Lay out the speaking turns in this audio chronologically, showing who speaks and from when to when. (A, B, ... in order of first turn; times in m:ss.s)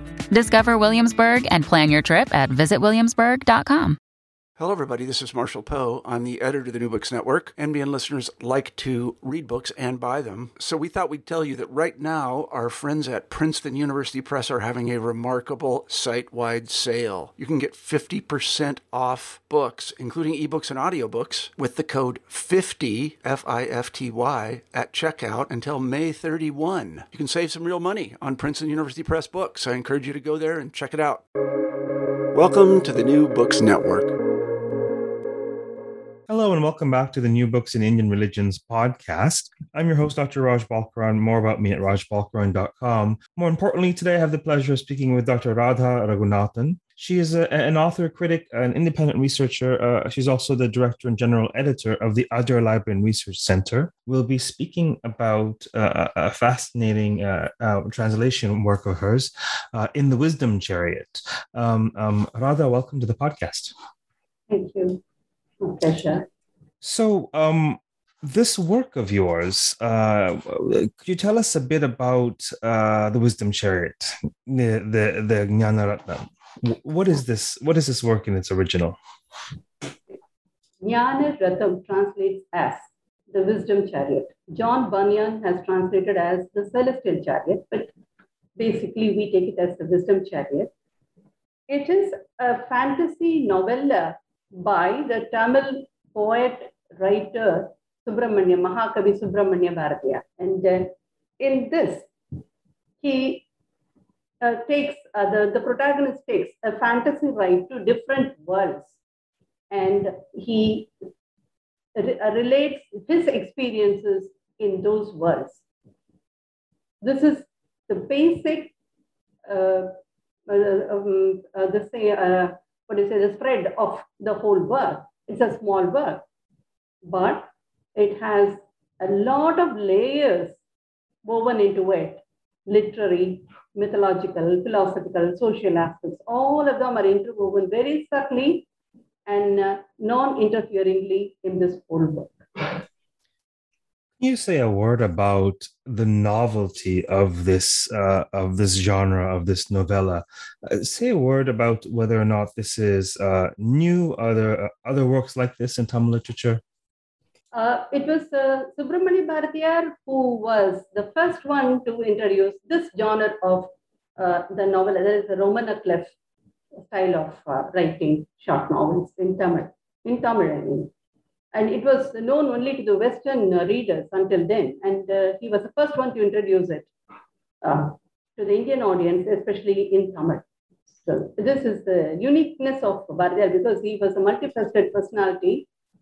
0:00.3-0:04.0 A
0:04.6-0:31.2 B
0:32.3-0:34.1 B
0:36.3-1:03.7 C
1:04.5-1:05.0 D
1:05.6-1:06.3 D
1:06.8-1:19.0 C
1:20.8-1:27.9 D
1:28.6-1:30.7 D
1:31.7-1:42.1 D
1:43.0-1:43.4 D
1:44.4-1:49.0 D
1:49.7-1:50.9 D
1:52.0-1:55.6 D
1:57.0-1:58.7 D
1:59.4-1:59.9 D
2:00.5-2:06.2 D
2:07.0-2:10.6 D
2:11.2-2:18.7 D
2:19.3-2:22.8 D
2:24.2-2:36.6 C
2:37.5-2:46.1 D
2:46.9-2:50.9 D
2:51.5-2:56.9 D
2:57.6-3:05.7 D